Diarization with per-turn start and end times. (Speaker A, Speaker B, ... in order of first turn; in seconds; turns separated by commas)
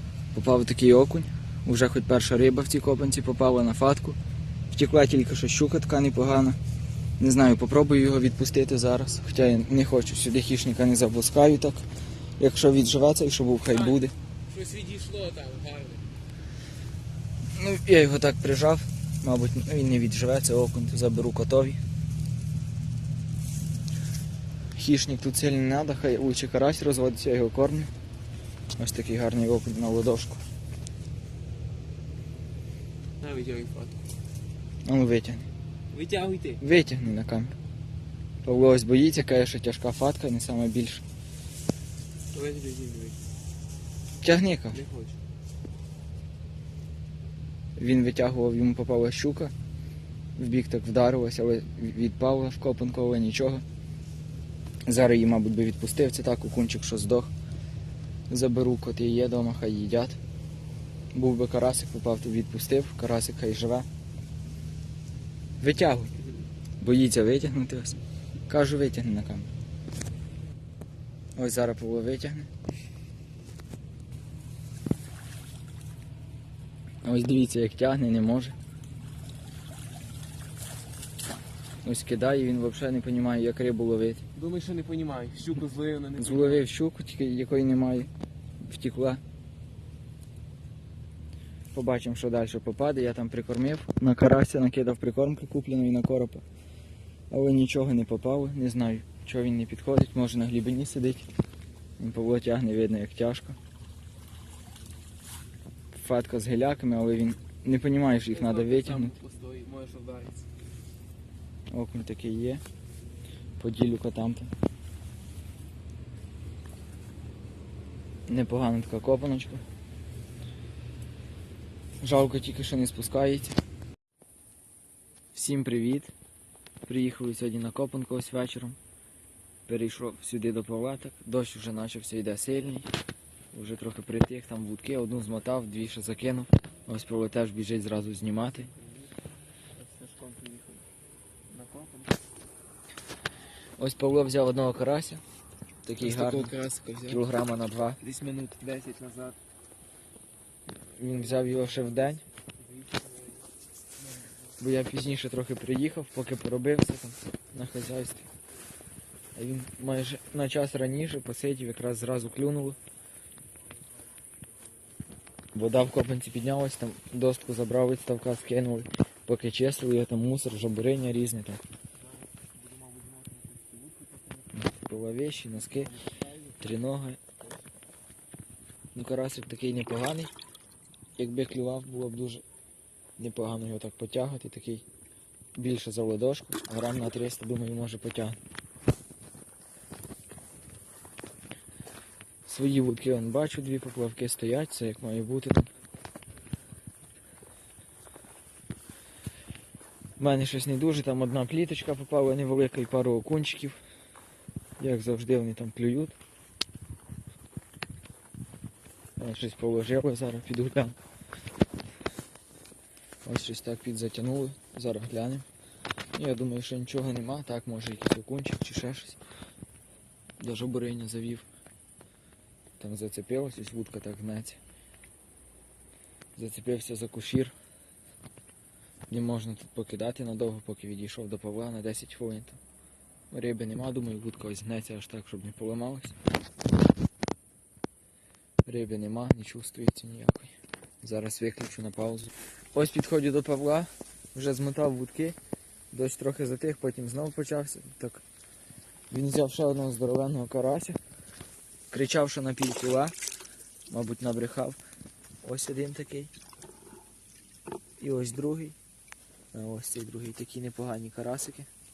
Speaker A: 0.3-4.2, Speaker A: 4.7-6.6, Speaker A: 7.2-11.8, Speaker A: 12.4-14.1, Speaker B: 13.7-16.1, Speaker A: 17.6-21.8, Speaker A: 24.8-27.9, Speaker A: 28.8-30.4, Speaker B: 33.2-34.0, Speaker A: 34.9-35.5, Speaker B: 35.9-36.6, Speaker A: 36.6-37.6, Speaker A: 38.4-41.0, Speaker B: 42.3-43.3, Speaker A: 44.2-44.8, Speaker B: 44.7-45.2, Speaker A: 47.8-49.5, Speaker A: 50.4-53.6, Speaker A: 54.9-57.3, Speaker A: 58.3-60.2, Speaker A: 61.1-63.9, Speaker A: 65.6-66.1, Speaker A: 66.8-69.5, Speaker A: 71.4-72.5, Speaker A: 77.0-78.6, Speaker A: 81.8-84.2, Speaker B: 84.3-86.7, Speaker A: 86.2-88.1, Speaker A: 88.6-89.2, Speaker A: 91.7-96.4, Speaker A: 97.3-101.3, Speaker A: 102.0-103.6, Speaker A: 105.9-109.2, Speaker B: 108.3-110.5, Speaker A: 111.7-112.6, Speaker A: 113.6-114.5, Speaker A: 118.3-119.6, Speaker A: 122.0-123.6, Speaker A: 125.3-126.1, Speaker A: 126.8-128.8, Speaker A: 129.7-132.9, Speaker A: 133.5-138.7, Speaker B: 138.6-139.1, Speaker B: 139.8-140.9, Speaker B: 141.5-142.3, Speaker A: 143.8-145.2, Speaker A: 145.8-146.6, Speaker B: 146.0-147.2, Speaker A: 147.1-148.0, Speaker B: 148.0-149.4, Speaker A: 150.8-152.2, Speaker B: 151.1-153.5, Speaker A: 154.6-158.3, Speaker A: 159.4-162.8, Speaker A: 165.5-171.6, Speaker B: 171.9-174.7, Speaker A: 174.5-175.9, Speaker B: 175.7-176.7, Speaker A: 176.6-177.2, Speaker A: 178.9-180.3, Speaker A: 181.2-182.4, Speaker A: 183.2-184.8, Speaker A: 185.6-188.4, Speaker A: 192.5-195.7, Speaker A: 200.2-203.8, Speaker A: 204.8-206.2, Speaker A: 209.2-211.0, Speaker A: 213.2-215.5, Speaker A: 216.2-219.2, Speaker A: 220.4-221.5, Speaker A: 222.8-224.6, Speaker A: 226.4-227.5, Speaker A: 229.1-232.6, Speaker A: 233.3-236.2, Speaker A: 238.7-245.4, Speaker A: 245.9-248.2, Speaker A: 249.1-251.0, Speaker A: 251.9-253.2, Speaker A: 253.9-254.8, Speaker A: 255.4-256.3, Speaker A: 258.0-258.8, Speaker A: 259.5-261.7